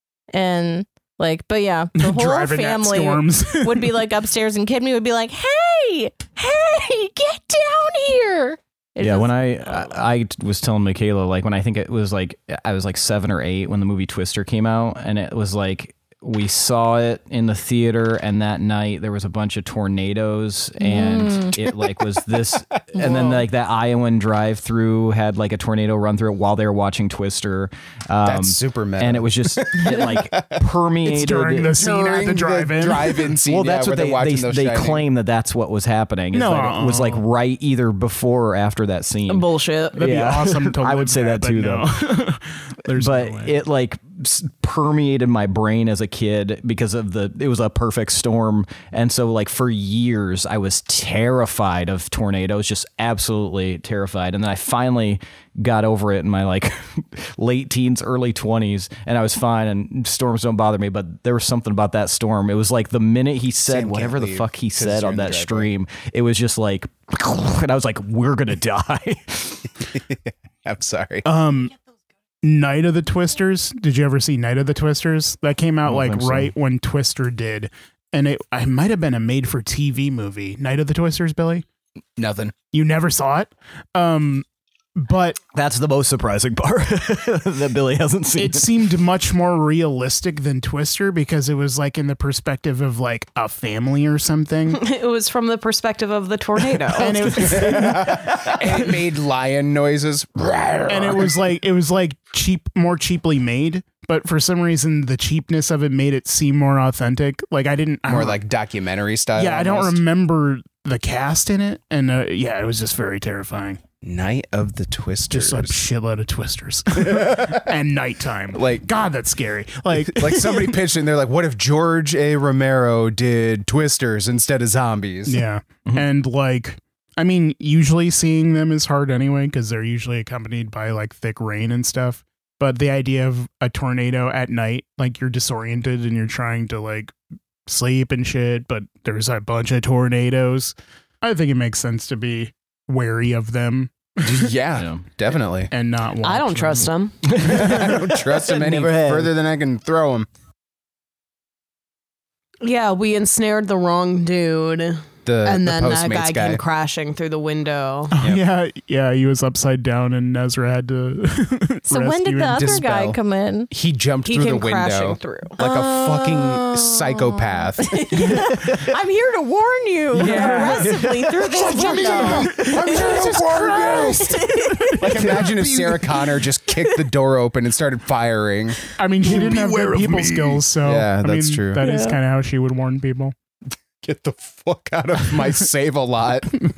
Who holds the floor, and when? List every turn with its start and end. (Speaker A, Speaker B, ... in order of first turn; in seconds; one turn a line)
Speaker A: 0.3-9.9
Speaker B: 2.0-4.1
Speaker C: 9.0-31.8
Speaker A: 20.8-21.5
Speaker D: 23.0-23.4
Speaker E: 28.2-30.6
Speaker B: 31.0-33.3
Speaker E: 31.7-35.1
Speaker C: 33.5-42.1
Speaker B: 36.3-37.2
Speaker D: 39.3-40.0
Speaker B: 40.0-43.6
Speaker C: 42.9-69.7
Speaker E: 63.7-65.7
Speaker E: 69.8-71.2
Speaker B: 71.2-71.7
Speaker B: 72.4-81.7
Speaker C: 75.8-76.5
Speaker E: 82.2-82.5
Speaker B: 82.7-84.5
Speaker B: 85.0-85.4
Speaker C: 85.5-88.7
Speaker B: 88.4-94.8
Speaker D: 94.7-97.6
Speaker B: 97.0-98.5
Speaker E: 97.3-101.3
Speaker B: 100.9-108.4
Speaker E: 108.1-110.0
Speaker B: 109.4-113.8
Speaker E: 114.0-115.8
Speaker B: 115.3-120.8
Speaker E: 116.9-117.7
Speaker E: 118.5-118.8
Speaker E: 120.0-125.5
Speaker B: 125.3-137.2
Speaker B: 137.7-144.5
Speaker E: 144.2-145.7
Speaker B: 145.7-146.9
Speaker D: 146.2-147.3
Speaker C: 147.2-149.3
Speaker E: 147.4-150.3
Speaker D: 152.6-158.2
Speaker E: 155.2-156.6
Speaker B: 158.1-162.7
Speaker A: 161.9-163.7
Speaker E: 162.5-163.2
Speaker E: 163.7-168.3
Speaker D: 164.2-167.1
Speaker A: 167.9-175.2
Speaker D: 168.7-172.6
Speaker B: 170.2-170.9
Speaker E: 170.2-171.0
Speaker B: 171.8-175.7
Speaker E: 171.8-174.4
Speaker C: 172.4-173.8
Speaker D: 173.8-174.1
Speaker E: 175.0-181.9
Speaker B: 179.0-183.3
Speaker C: 179.2-180.4
Speaker A: 181.8-182.2
Speaker E: 184.0-186.6